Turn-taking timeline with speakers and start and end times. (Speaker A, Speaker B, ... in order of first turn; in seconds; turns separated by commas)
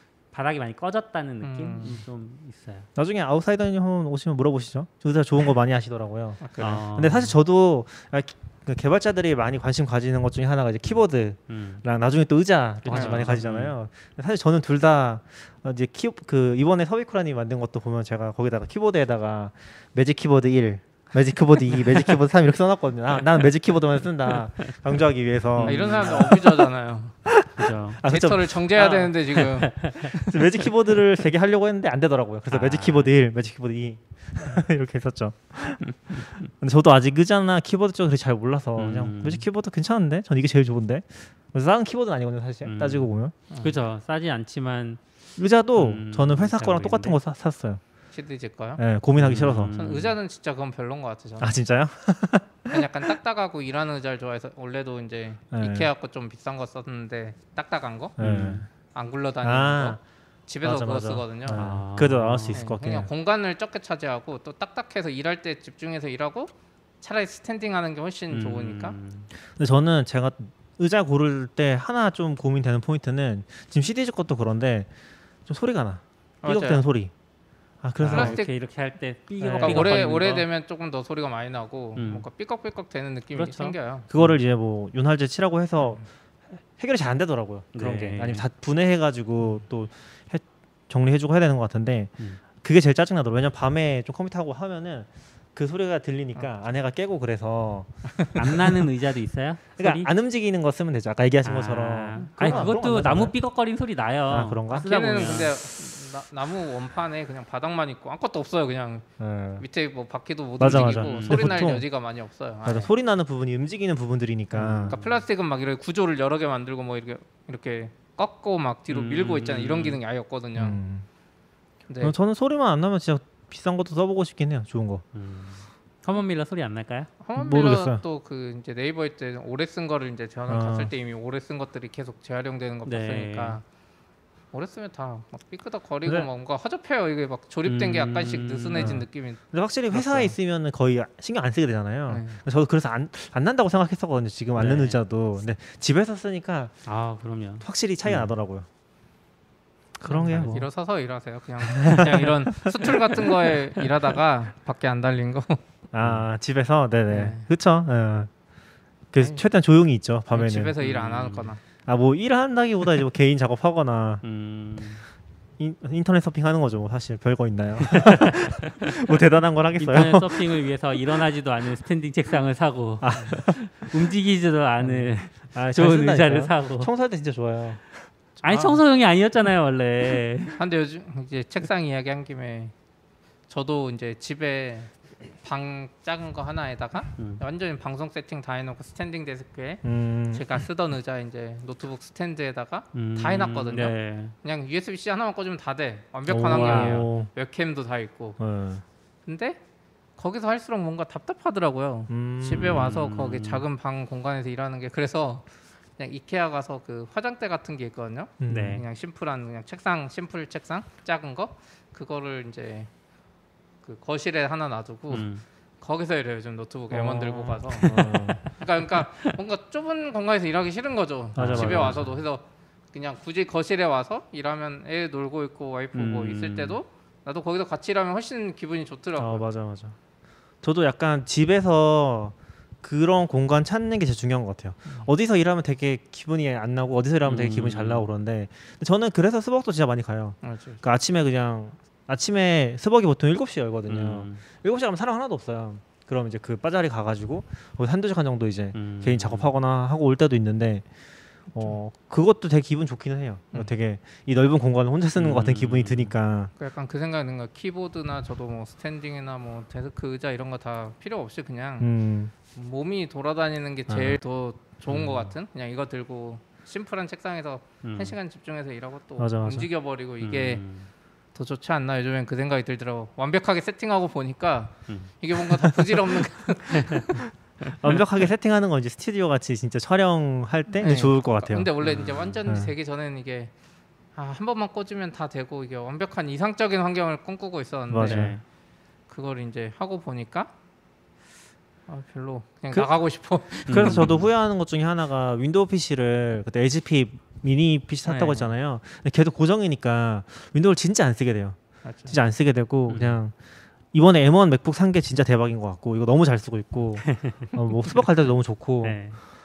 Speaker A: 0.3-2.9, Speaker B: 1.4-2.0, Speaker C: 3.0-26.6, Speaker B: 6.4-6.8, Speaker A: 6.6-7.3, Speaker A: 11.5-11.8, Speaker A: 12.8-13.7, Speaker B: 12.9-13.4, Speaker A: 25.6-26.4, Speaker B: 25.6-27.1, Speaker C: 27.2-28.9, Speaker A: 27.6-28.0, Speaker B: 28.1-30.4, Speaker A: 28.8-30.1, Speaker C: 30.1-43.3, Speaker A: 32.5-33.1, Speaker A: 38.8-39.4, Speaker A: 42.6-43.1, Speaker B: 43.5-43.8, Speaker A: 43.6-45.0, Speaker C: 45.4-47.8, Speaker A: 45.7-47.1, Speaker B: 48.1-48.8, Speaker C: 48.8-49.8, Speaker A: 49.2-50.1, Speaker B: 49.7-51.5, Speaker C: 51.4-53.1, Speaker B: 52.7-58.2, Speaker C: 55.5-55.9, Speaker C: 58.2-58.7, Speaker A: 58.2-58.6, Speaker B: 58.9-61.6, Speaker C: 59.4-60.0, Speaker C: 60.6-63.1, Speaker A: 61.5-62.6, Speaker B: 62.5-69.0, Speaker A: 68.3-69.3, Speaker C: 69.5-74.9, Speaker C: 75.5-77.1, Speaker B: 76.4-76.8, Speaker C: 77.8-78.4, Speaker A: 78.0-80.5, Speaker B: 78.1-78.5, Speaker C: 79.4-80.0, Speaker B: 79.6-84.0, Speaker A: 82.0-82.3, Speaker A: 83.3-84.4, Speaker C: 84.1-86.0, Speaker B: 85.8-86.0, Speaker C: 86.8-97.9, Speaker A: 87.7-88.5, Speaker A: 98.3-100.1, Speaker C: 99.8-103.3, Speaker A: 101.4-105.5, Speaker B: 102.1-102.8, Speaker C: 104.3-105.5, Speaker B: 104.7-109.0, Speaker C: 109.2-109.6, Speaker B: 109.6-112.9, Speaker C: 110.6-111.9, Speaker A: 110.6-111.6, Speaker C: 112.6-115.0, Speaker A: 114.5-115.1, Speaker B: 114.9-120.8, Speaker A: 118.9-120.0, Speaker C: 120.5-121.0, Speaker B: 121.9-122.1, Speaker C: 122.0-125.0, Speaker A: 125.1-127.1, Speaker B: 127.2-133.6, Speaker C: 127.3-128.0, Speaker C: 130.5-130.9, Speaker A: 132.8-133.6, Speaker B: 134.5-139.4, Speaker A: 137.6-139.0, Speaker C: 138.8-146.8, Speaker A: 139.9-140.3, Speaker B: 142.1-142.4, Speaker A: 144.5-145.0, Speaker A: 146.8-148.3, Speaker C: 147.6-148.7, Speaker C: 150.0-150.7, Speaker B: 150.1-155.6, Speaker A: 150.3-150.6, Speaker C: 151.7-153.0, Speaker C: 155.9-158.3, Speaker B: 157.1-157.5, Speaker C: 159.1-160.8, Speaker B: 160.3-161.6, Speaker A: 160.8-161.5, Speaker C: 161.8-164.2, Speaker A: 164.2-165.0, Speaker C: 165.6-170.6, Speaker A: 167.9-168.8, Speaker A: 169.8-176.9, Speaker C: 173.0-173.5, Speaker C: 174.8-177.8, Speaker A: 178.4-180.6, Speaker B: 178.4-178.8, Speaker B: 180.6-182.7, Speaker B: 183.5-198.4, Speaker C: 189.8-190.4, Speaker A: 192.9-194.3, Speaker C: 196.3-197.3, Speaker A: 196.5-197.1, Speaker C: 198.4-198.8, Speaker B: 199.2-199.6, Speaker B: 200.2-205.4, Speaker C: 202.1-202.9, Speaker A: 202.6-203.6, Speaker B: 206.0-212.9, Speaker C: 208.4-208.8, Speaker A: 208.5-208.8, Speaker B: 213.8-215.3, Speaker A: 215.1-215.4, Speaker B: 215.8-229.4, Speaker C: 216.9-218.4, Speaker A: 217.7-218.6, Speaker C: 221.3-222.1, Speaker A: 221.4-222.1, Speaker A: 225.9-226.8, Speaker C: 229.2-230.0, Speaker C: 230.6-250.8, Speaker A: 237.2-238.1, Speaker B: 240.4-240.8, Speaker A: 243.9-244.4, Speaker A: 248.7-249.5, Speaker C: 251.5-256.5, Speaker A: 255.2-256.1, Speaker B: 256.6-261.9, Speaker C: 261.8-262.3, Speaker B: 262.5-270.6, Speaker C: 263.9-264.2, Speaker A: 267.8-268.1, Speaker C: 269.2-269.7, Speaker A: 270.2-270.9, Speaker B: 271.3-277.2, Speaker A: 276.7-278.0, Speaker C: 277.1-281.7, Speaker B: 280.8-283.5, Speaker A: 281.8-282.4, Speaker C: 282.4-282.7, Speaker B: 284.1-288.4, Speaker C: 287.9-288.4, Speaker A: 288.0-288.4, Speaker B: 289.1-290.5, Speaker B: 291.9-294.1, Speaker C: 293.5-303.3, Speaker A: 293.7-294.3, Speaker B: 298.1-298.5, Speaker B: 301.8-302.1, Speaker A: 302.9-303.2, Speaker C: 303.9-309.0, Speaker A: 307.1-307.5, Speaker A: 308.8-309.2